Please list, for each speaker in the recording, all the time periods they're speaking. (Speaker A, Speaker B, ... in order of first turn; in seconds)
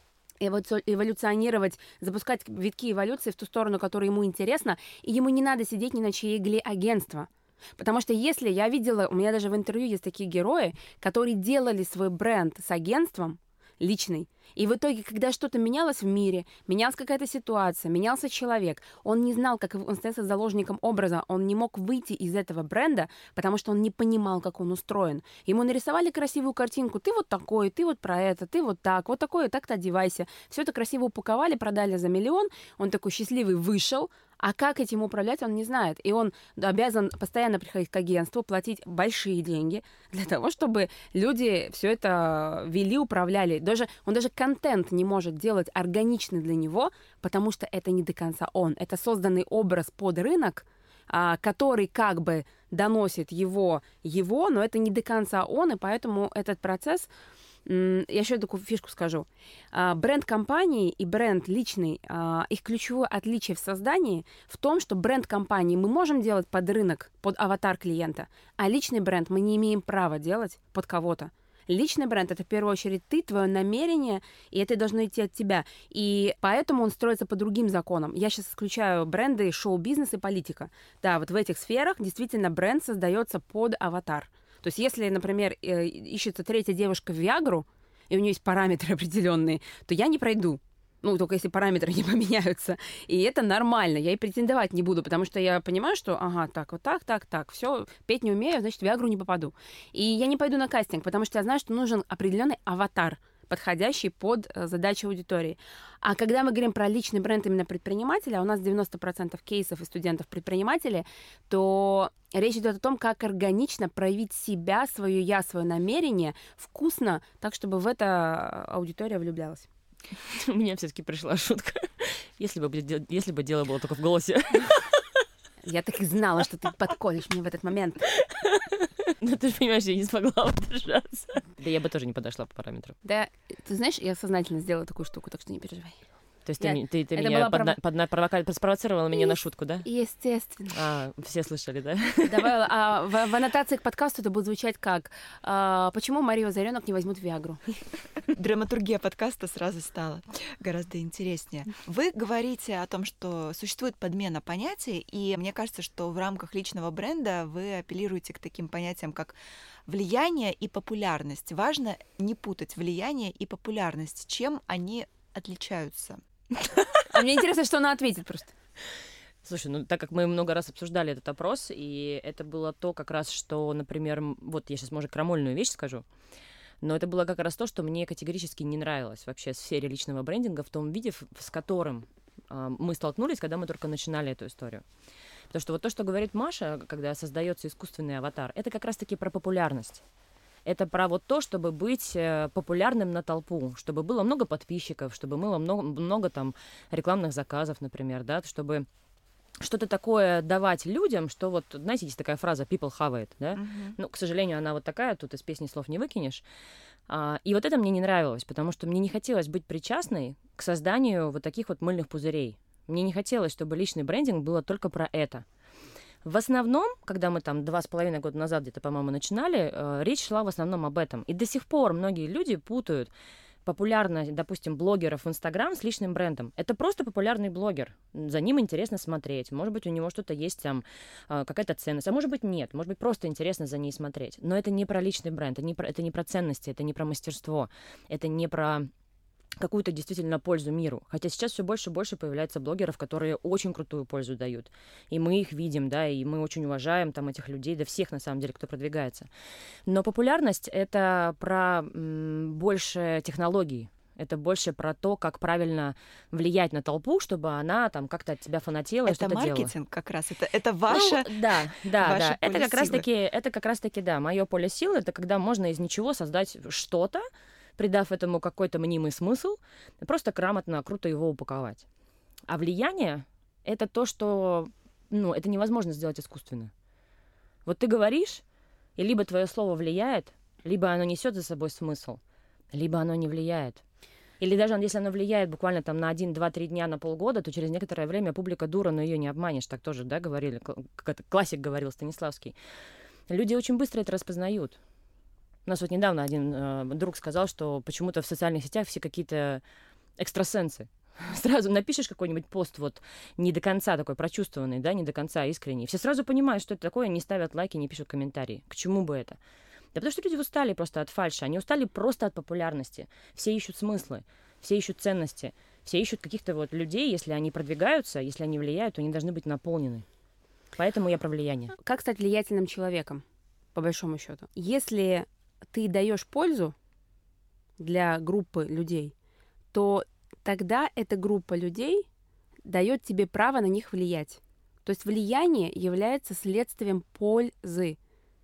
Speaker A: 0.4-57.1, 57.6-119.7, 125.6-128.0, 133.0-136.0, 136.6-137.8, 139.1-140.7, 142.2-147.6, 167.1-168.5, 321.8-323.2, 323.7-326.7, 327.8-329.1, 329.7-332.1, 332.6-338.0
Speaker B: 120.2-125.0, 128.2-132.9, 136.4-139.9, 140.7-142.5, 169.4-176.0, 176.8-184.8, 185.5-190.0, 190.6-198.9, 199.6-206.4, 207.1-215.4, 216.2-223.1, 223.6-238.9, 239.6-249.3, 249.9-259.7, 260.9-267.2, 267.8-271.9, 272.5-276.7, 277.6-278.4, 279.0-282.2, 282.7-283.8, 284.4-292.5, 293.3-294.8, 295.6-299.6, 300.2-309.4, 309.9-320.0, 320.8-321.7
Speaker C: 148.3-159.3, 159.9-166.2, 203.5-203.9, 259.1-263.1